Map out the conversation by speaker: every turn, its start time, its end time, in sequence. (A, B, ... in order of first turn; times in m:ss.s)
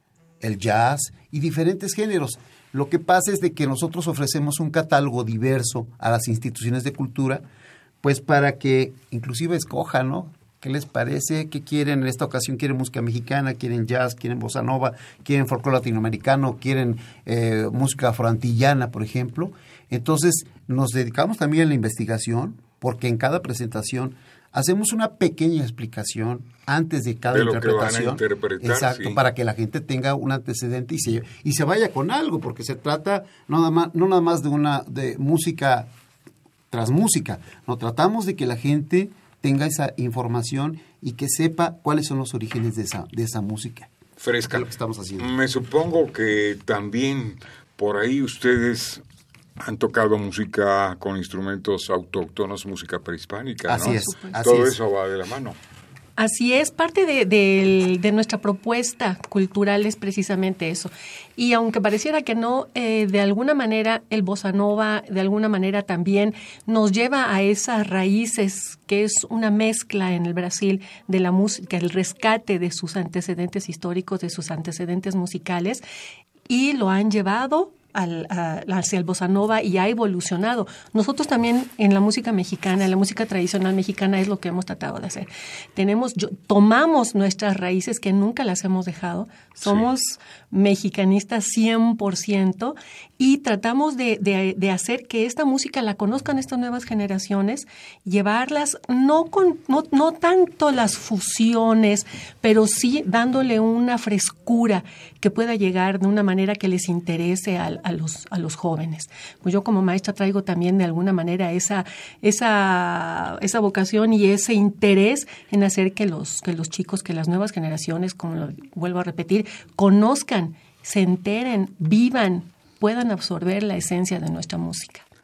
0:00.4-0:07.4 A
0:08.0-0:35.9 A
0:27.3-0:29.2 B
0:36.7-0:43.9 A
0:44.2-0:44.7 B
0:44.5-0:45.3 A
0:45.2-0:49.0 B
0:49.6-0:55.6 B
0:53.7-0:54.8 A
0:53.8-0:54.4 C
0:56.2-1:15.8 C
1:16.5-2:05.0 C